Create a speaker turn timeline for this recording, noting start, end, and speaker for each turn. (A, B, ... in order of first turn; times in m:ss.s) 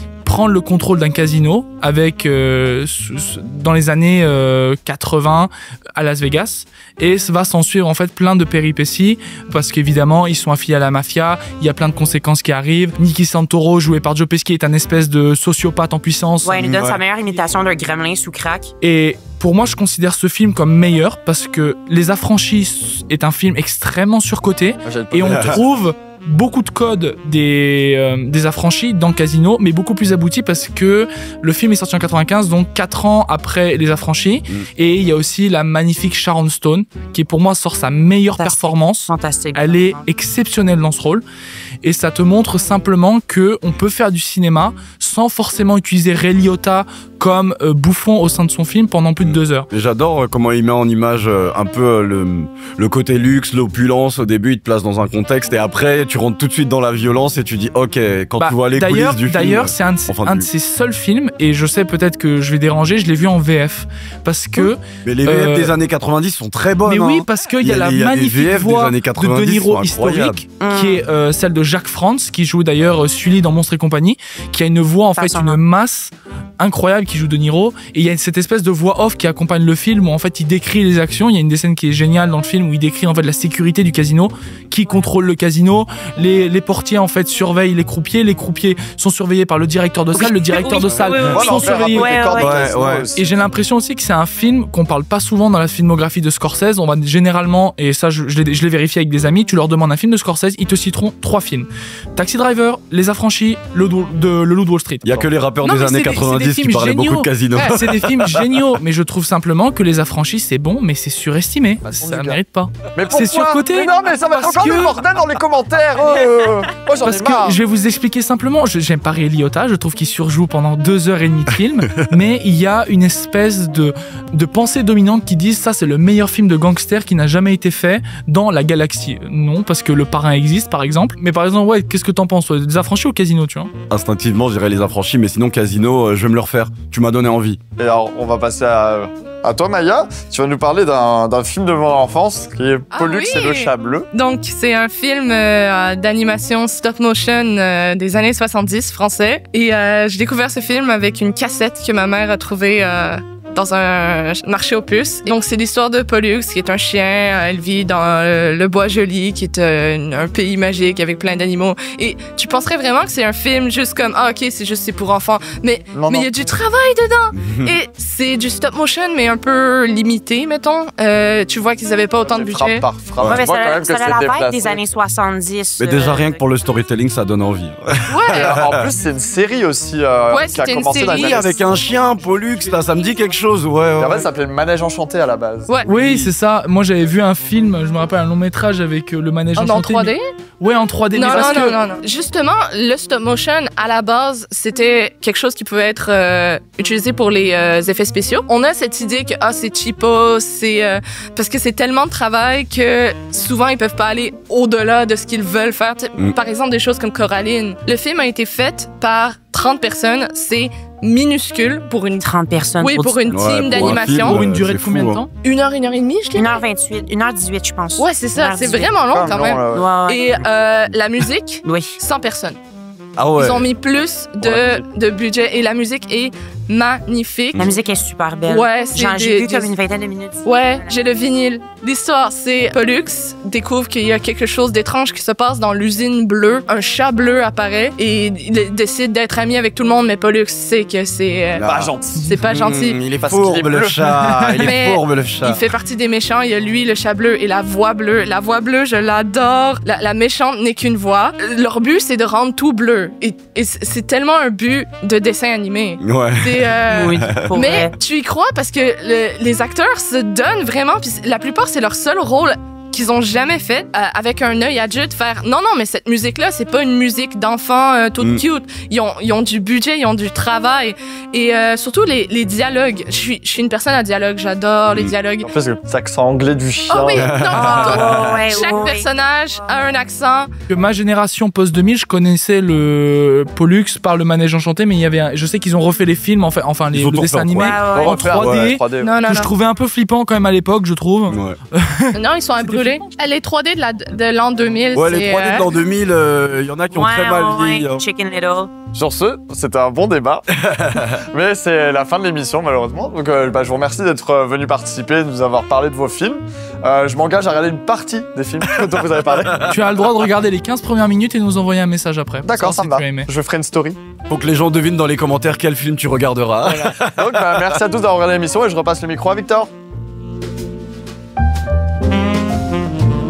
0:00.2-0:16.8 A
0:16.4-0:18.7 B
0:16.6-0:17.0 C
0:18.8-0:41.2 A
0:24.8-0:25.6 D
0:25.3-0:25.6 C
0:38.4-0:40.0 B
0:41.8-0:49.7 A
0:49.2-1:00.5 C
0:58.4-1:05.7 A
1:05.0-1:10.4 C
1:06.8-1:32.2 A
1:10.6-1:11.0 B
1:15.2-1:15.6 B
1:30.1-1:32.6 B
1:31.2-1:33.2 D
1:31.4-1:31.7 C
1:32.3-1:33.1 C
1:33.2-1:55.1 A
1:45.0-1:48.6 C
1:51.8-1:52.4 D
1:52.9-1:57.6 D
1:56.1-1:56.3 A
1:57.0-2:13.7 A
2:13.9-2:17.6 C
2:17.8-2:24.1 D
2:22.9-2:52.9 E
2:45.9-2:46.3 D
2:47.3-2:47.7 C
2:52.2-2:54.8 D
2:53.2-2:53.4 C
2:53.2-2:56.4 B
2:55.8-2:58.9 C
2:58.1-2:58.5 E
2:58.3-3:01.5 D
3:00.3-3:01.5 E
3:01.1-3:04.3 C
3:04.0-3:06.3 D
3:05.9-3:11.8 A
3:09.6-3:10.2 E
3:11.1-3:32.3 E
3:32.2-3:33.5 B
3:32.8-3:34.4 E
3:33.3-3:35.2 C
3:33.7-3:35.3 A
3:35.4-3:36.6 E
3:36.3-3:39.0 B
3:38.0-3:42.6 E
3:39.1-3:39.9 D
3:39.7-3:40.3 B
3:41.6-3:42.0 B
3:43.2-3:43.6 C
3:43.4-3:47.7 E
3:44.4-3:44.8 D
3:47.6-3:51.0 B
3:48.5-3:49.7 E
3:50.4-4:03.0 E
4:01.6-4:01.9 C
4:01.6-4:02.2 D
4:02.4-4:05.7 C
4:03.1-4:04.7 D
4:04.6-4:35.5 E
4:16.0-4:17.4 C
4:16.9-4:17.9 B
4:35.4-4:37.3 D
4:36.9-4:40.5 E
4:37.2-4:38.4 C
4:37.5-4:39.1 B
4:40.7-4:53.1 A
4:46.9-4:48.7 C
4:47.5-4:48.2 B
4:48.0-4:49.2 D
4:49.0-4:49.5 E
4:51.3-4:51.6 C
4:52.1-4:55.7 E
4:54.9-4:58.0 C
4:56.9-4:58.7 B
4:58.9-5:00.4 D
5:00.6-5:01.2 C
5:01.3-5:09.7 D
5:08.8-5:09.7 C
5:09.6-5:13.3 A
5:12.4-5:14.0 D
5:14.3-5:17.8 C
5:16.6-5:19.7 D